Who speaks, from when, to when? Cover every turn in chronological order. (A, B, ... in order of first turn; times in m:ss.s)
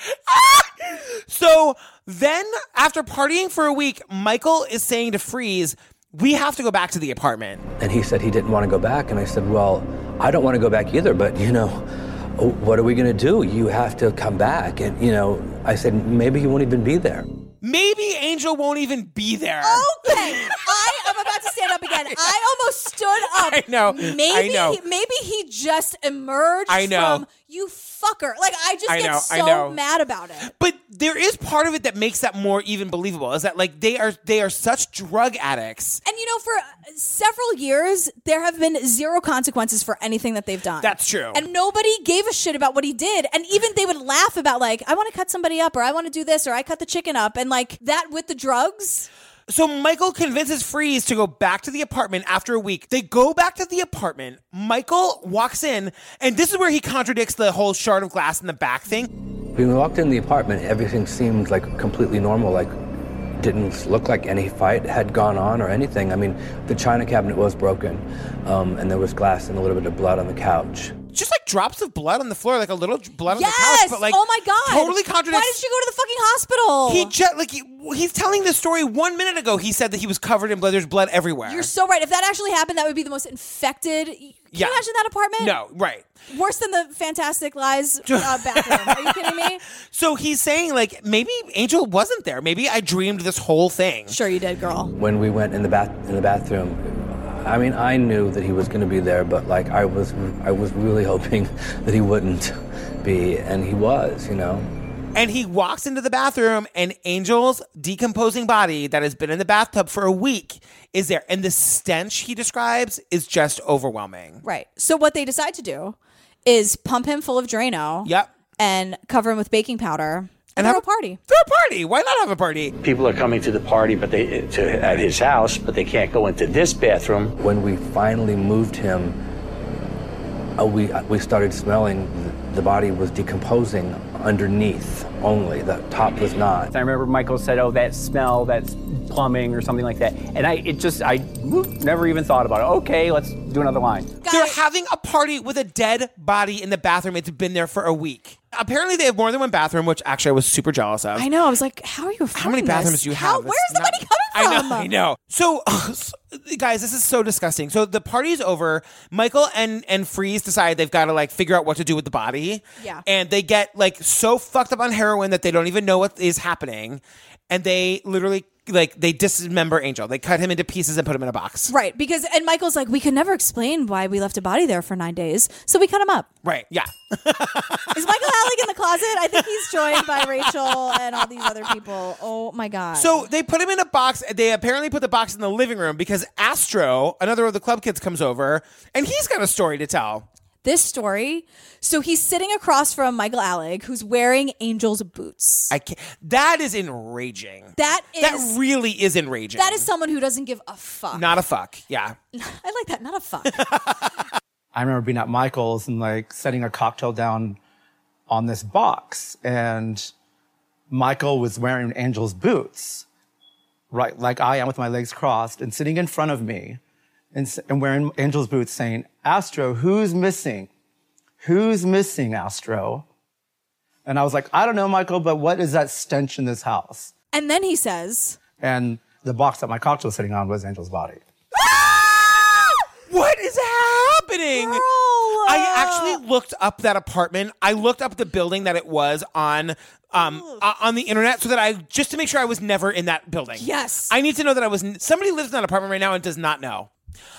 0:00.3-0:07.6 A
0:07.8-0:11.8 B
0:12.4-0:17.2 B
0:17.6-0:20.6 A
0:19.6-0:30.5 C
0:23.3-0:24.8 A
0:26.7-0:27.2 A
0:28.9-0:29.8 A
0:30.5-0:36.0 A
0:36.0-0:49.1 C
0:40.8-0:41.4 A
0:49.5-0:59.1 A
0:59.5-1:02.7 B
1:03.4-1:11.0 B
1:11.1-1:15.6 A
1:13.3-1:17.1 C
1:16.9-1:21.7 A
1:21.4-1:25.6 C
1:24.5-1:24.8 A
1:25.4-1:26.0 A
1:26.3-1:29.6 C
1:28.0-1:29.1 A
1:29.9-1:34.2 A
1:34.1-1:34.9 C
1:35.0-1:44.7 B
1:45.1-1:54.4 A
1:54.4-2:01.2 C
1:58.0-1:58.3 A
2:00.6-2:02.7 A
2:02.8-2:07.3 D
2:07.4-2:09.2 B
2:10.6-2:16.7 B
2:16.7-2:24.1 E
2:24.2-2:24.6 C
2:24.3-2:31.2 A
2:31.1-2:34.9 C
2:32.3-2:51.7 A
2:51.7-2:56.3 C
2:56.4-2:57.9 A
2:57.9-3:03.3 C
3:02.9-3:10.2 A
3:10.6-3:15.7 C
3:15.7-3:19.9 A
3:17.8-3:18.6 C
3:19.5-3:21.3 C
3:21.1-3:22.1 A
3:22.3-3:23.6 C
3:23.6-3:23.9 A
3:24.7-3:27.6 F
3:28.3-3:30.1 F
3:30.9-3:33.0 F
3:33.9-3:36.8 F
3:37.3-3:40.7 F
3:41.4-3:43.0 F
3:44.0-3:47.1 F
3:47.3-3:48.4 C
3:48.6-3:51.2 F
3:53.1-3:54.8 A
3:54.5-3:56.2 C
3:55.4-4:06.9 A
4:00.1-4:00.6 C
4:03.6-4:04.1 C